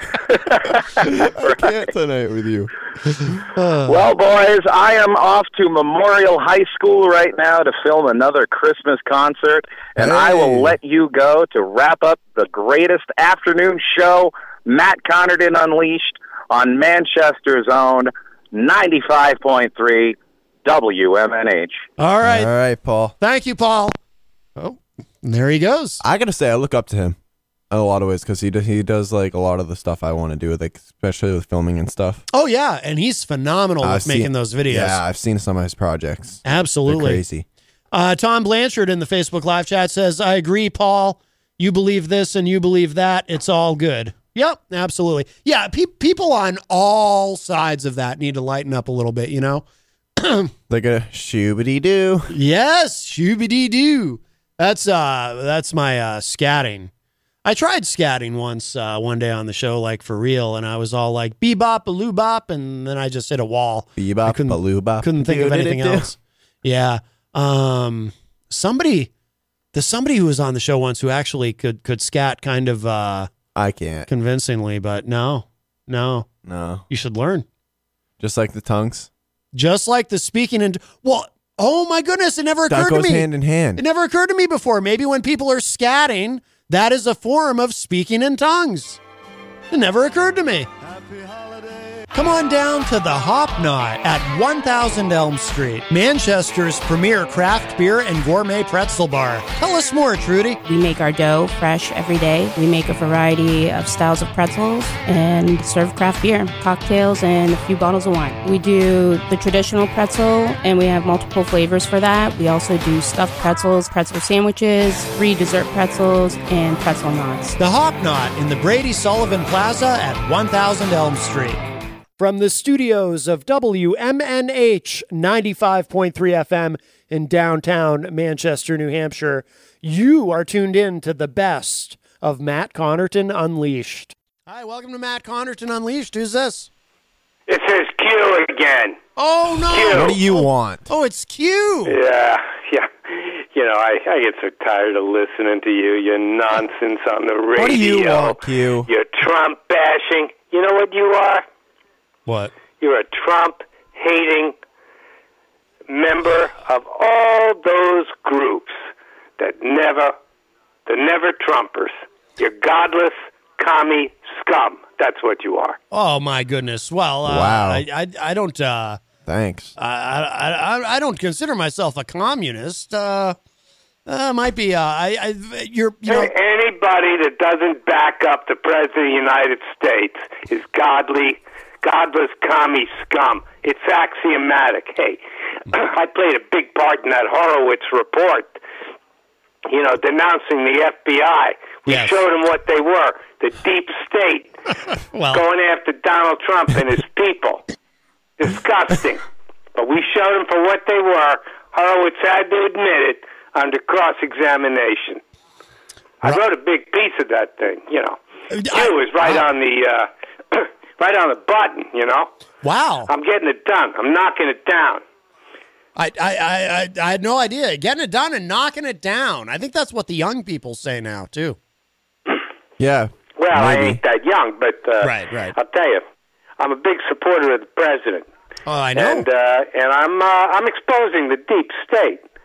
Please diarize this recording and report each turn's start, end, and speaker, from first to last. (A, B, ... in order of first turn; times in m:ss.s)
0:01.0-0:02.7 A
0:01.4-0:01.7 B
0:03.5-0:04.0 C
0:03.8-0:21.8 B
0:10.0-0:10.8 A
0:22.0-0:22.5 C
0:22.2-0:23.1 A
0:23.2-0:24.0 C
0:24.6-0:26.0 C
0:26.0-0:27.2 A
0:27.7-0:32.2 A
0:32.3-0:35.0 C
0:33.8-0:37.4 A
0:36.4-0:37.2 C
0:37.9-0:49.6 C
0:50.2-0:50.5 C
0:50.7-0:52.3 A
0:52.3-0:56.9 C
0:57.4-1:09.1 C
1:04.0-1:06.1 A
1:09.7-1:13.3 C
1:13.5-1:14.1 A
1:14.1-1:16.3 C
1:16.4-1:16.8 A
1:16.9-1:17.4 C
1:18.2-1:19.1 A
1:19.5-1:29.0 C
1:22.7-1:23.8 A
1:29.7-1:40.6 C
1:40.6-1:57.6 D
1:57.6-2:01.6 C
2:02.2-2:16.7 C
2:17.5-2:19.0 E
2:19.2-2:22.0 C
2:19.7-2:20.2 E
2:19.9-2:20.9 A
2:21.8-2:31.4 E
2:27.6-2:28.9 A
2:32.2-2:32.5 C
2:32.8-2:34.5 E
2:35.9-2:38.8 E
2:39.4-2:40.1 E
2:40.9-2:45.8 E
2:45.9-2:49.0 C
2:47.2-2:47.8 A
2:49.2-2:49.7 A
2:49.8-2:53.4 C
2:54.1-2:56.3 C
2:56.0-3:05.2 E
3:05.7-3:08.6 E
3:09.7-3:14.6 E
3:11.9-3:12.2 C
3:15.1-3:15.4 C
3:15.3-3:17.6 E
3:18.4-3:19.2 E
3:19.7-3:25.2 E
3:26.2-3:28.2 E
3:28.5-3:29.4 C
3:28.7-3:32.3 E
3:32.6-3:33.1 C
3:33.1-3:35.0 E
3:36.0-3:41.6 C
3:42.8-3:44.0 A
3:43.4-3:46.0 E
3:45.0-3:45.6 C
3:46.6-3:48.3 E
3:48.6-3:49.2 C
3:48.9-3:52.2 E